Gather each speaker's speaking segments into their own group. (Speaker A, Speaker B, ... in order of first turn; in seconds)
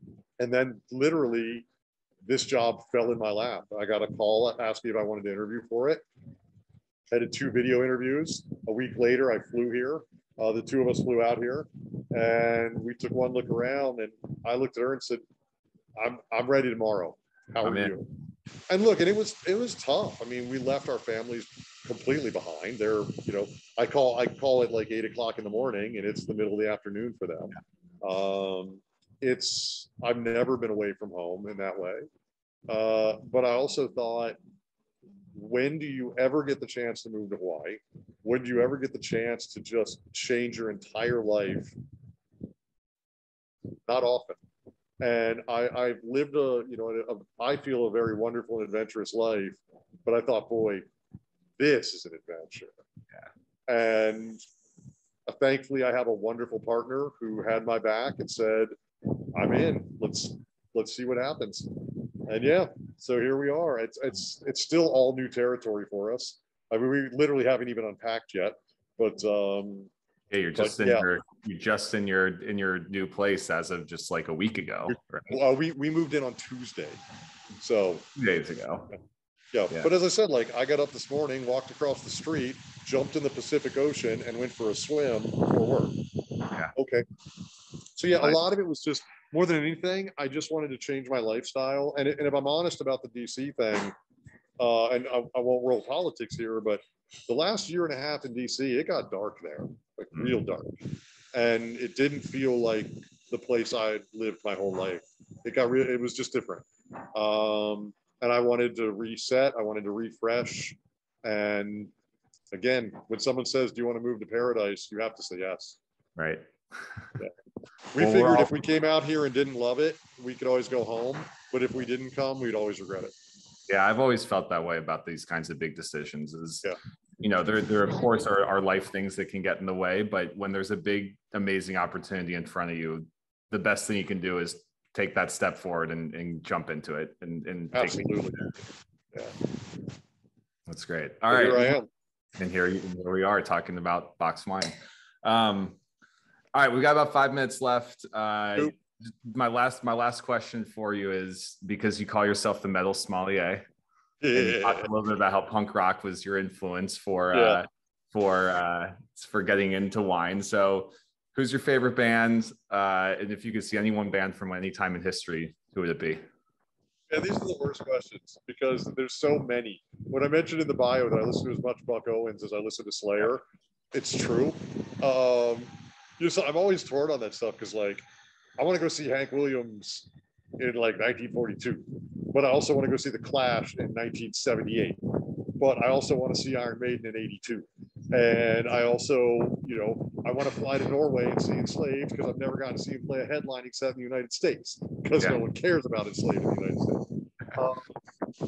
Speaker A: 0.4-1.7, 2.2-6.0, 7.1-15.2, 15.9-18.1, 18.7-32.0, 32.7-34.4, 35.3-41.7, 43.9-44.4, 45.0-50.9, 51.6-52.8, 53.7-54.4, 55.2-69.9, 70.5-71.0, 74.9-77.0, 77.6-78.0, 79.5-86.0, 86.7-87.0, 88.0-93.9, 94.6-111.9, 112.5-115.8, 117.9-123.1, 137.7-138.5, 139.1-139.4, 141.3-141.9, 154.2-154.9, 157.3-157.6, 167.1-178.0, 178.6-197.9
Speaker B: 17.6-17.9, 70.3-75.3, 78.1-78.9, 116.2-116.9, 118.0-118.5, 123.7-138.5, 140.7-141.8, 142.4-145.8, 146.5-153.6, 154.3-166.2